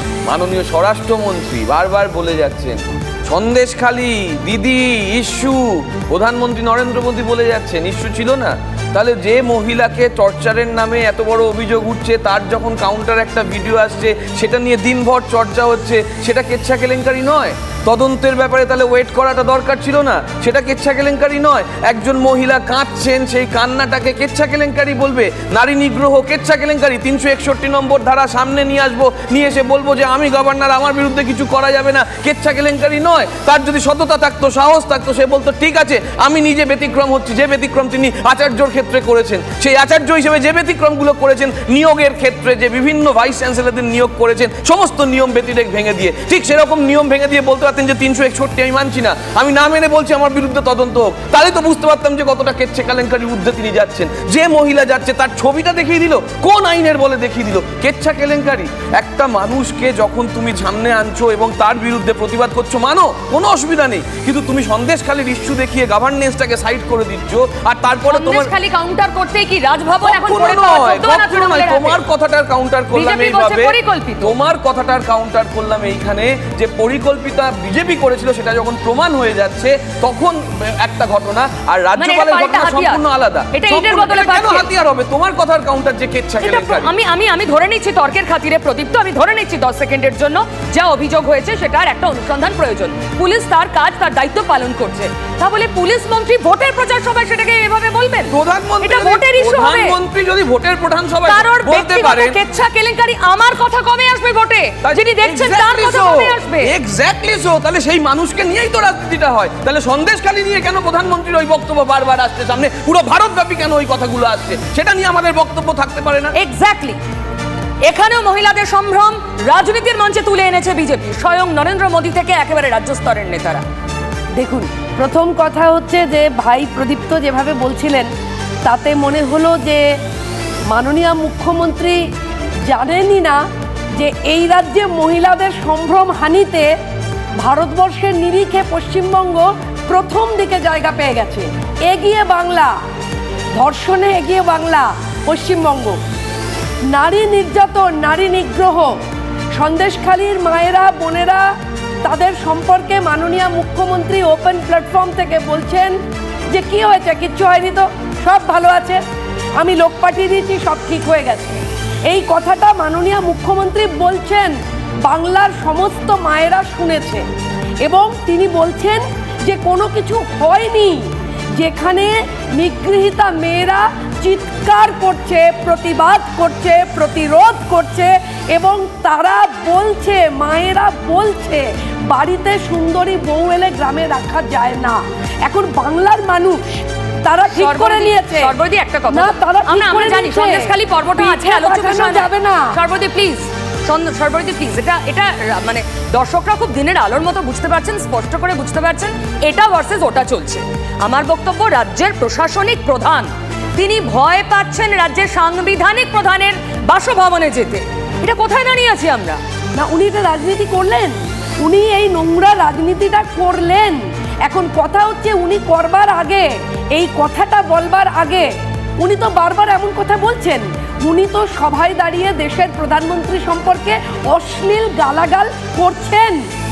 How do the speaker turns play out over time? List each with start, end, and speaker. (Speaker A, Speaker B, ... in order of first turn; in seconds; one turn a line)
Speaker A: 0.3-68.5
Speaker B: 68.1-72.0
Speaker A: 70.0-86.9
Speaker B: 72.9-74.3
Speaker B: 82.0-84.7
Speaker B: 86.4-100.0
Speaker A: 98.3-102.4
Speaker B: 101.2-106.7
Speaker A: 104.8-116.3
Speaker B: 116.3-117.0
Speaker B: 117.8-123.6
Speaker C: 124.4-128.1
Speaker C: 128.6-129.9
Speaker C: 130.7-132.0
Speaker C: 132.7-133.4
Speaker C: 134.0-136.7
Speaker C: 137.4-142.7
Speaker C: 143.6-146.0
Speaker C: 146.9-148.9
Speaker C: 149.5-151.4
Speaker C: 152.0-156.0
Speaker C: 156.5-159.0
Speaker C: 159.6-164.5
Speaker C: 165.0-167.2
Speaker C: 167.8-186.6
Speaker C: 187.2-188.5
Speaker B: 187.5-209.4
Speaker C: 189.1-192.7
Speaker C: 209.8-218.5
Speaker C: 219.0-226.4